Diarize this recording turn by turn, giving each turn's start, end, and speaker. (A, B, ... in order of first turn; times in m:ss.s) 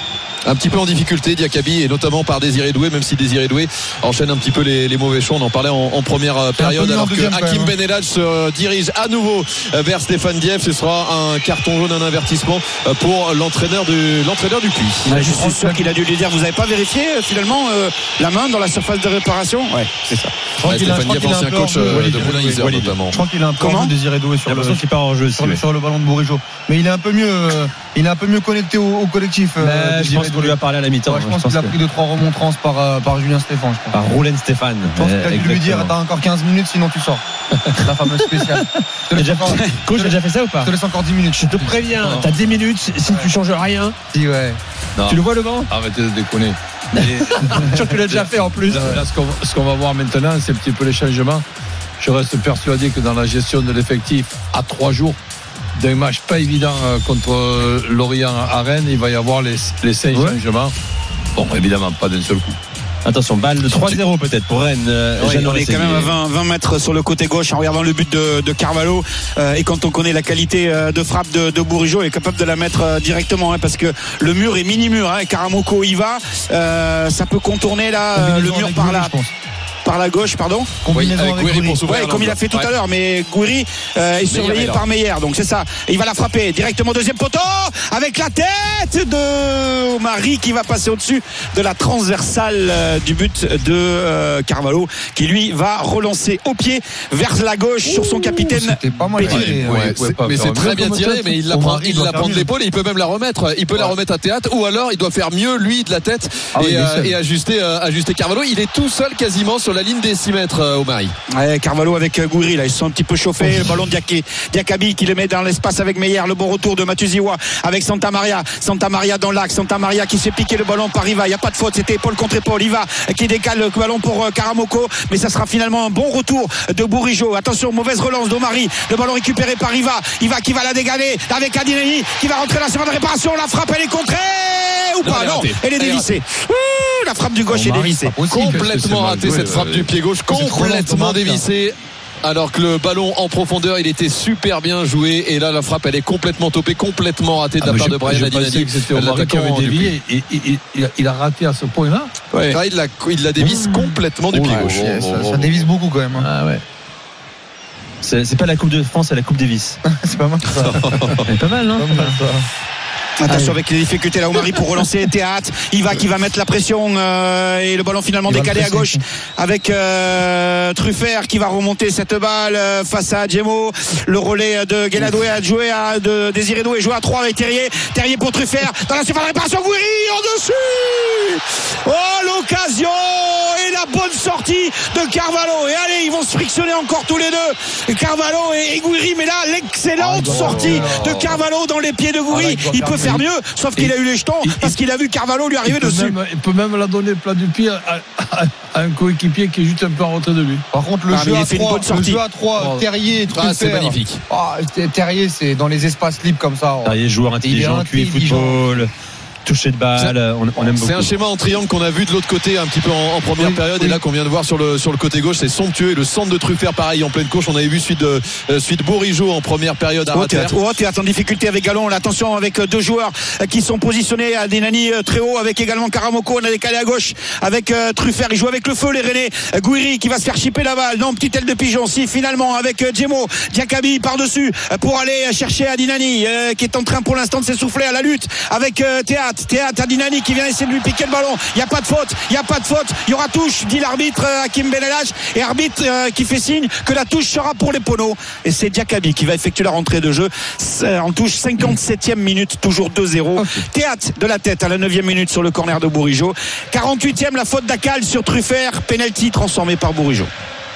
0:00.4-0:15.2 A
0:06.6-0:07.7 B
0:15.0-0:20.3 C
0:15.2-0:15.9 B
0:20.6-0:23.2 A
0:20.6-0:24.8 B
0:21.8-0:23.0 D
0:23.6-0:23.9 C
0:24.4-0:25.6 D
0:25.3-0:33.9 B
0:29.6-0:31.7 D
0:33.9-0:35.9 D
0:35.0-0:42.2 B
0:39.1-0:40.7 D
0:41.4-0:44.0 D
0:44.1-0:44.6 B
0:45.0-0:51.4 E
0:45.1-0:45.7 D
0:47.0-0:49.0 D
0:52.0-0:55.2 E
0:55.8-1:00.7 E
1:00.1-1:00.4 D
1:01.3-1:02.6 E
1:03.0-1:06.2 D
1:05.2-1:19.1 C
1:18.1-1:19.3 B
1:19.8-1:20.8 C
1:20.8-1:21.8 B
1:20.9-1:22.7 A
1:21.8-1:39.5 C
1:24.3-1:24.8 A
1:37.9-1:39.9 B
1:39.2-1:51.1 A
1:39.6-1:41.4 E
1:41.4-1:42.5 B
1:46.5-1:47.2 B
1:51.3-2:18.2 C
2:15.0-2:16.1 A
2:17.6-2:19.9 E
2:18.3-2:29.9 A
2:18.3-2:18.7 B
2:20.3-2:21.4 B
2:27.6-2:32.1 E
2:32.3-2:32.6 C
2:32.5-2:35.7 A
2:34.3-2:35.0 E
2:34.4-2:36.3 B
2:36.2-2:36.6 E
2:38.0-2:39.8 D
2:39.9-2:42.4 B
2:40.5-2:41.3 A
2:41.3-2:42.2 D
2:43.2-3:16.2 C
2:48.3-2:49.0 B
3:10.0-3:11.4 E
3:10.2-3:11.2 B
3:12.3-3:13.2 E
3:14.4-3:14.7 E
3:15.6-3:20.6 E
3:20.7-3:28.8 B
3:21.1-3:22.2 C
3:22.6-3:22.9 E
3:23.3-3:24.2 A
3:26.8-3:28.9 D
3:29.4-3:31.1 D
3:30.0-3:40.5 A
3:33.4-3:34.0 B
3:40.1-4:20.3 C
4:13.4-4:13.6 D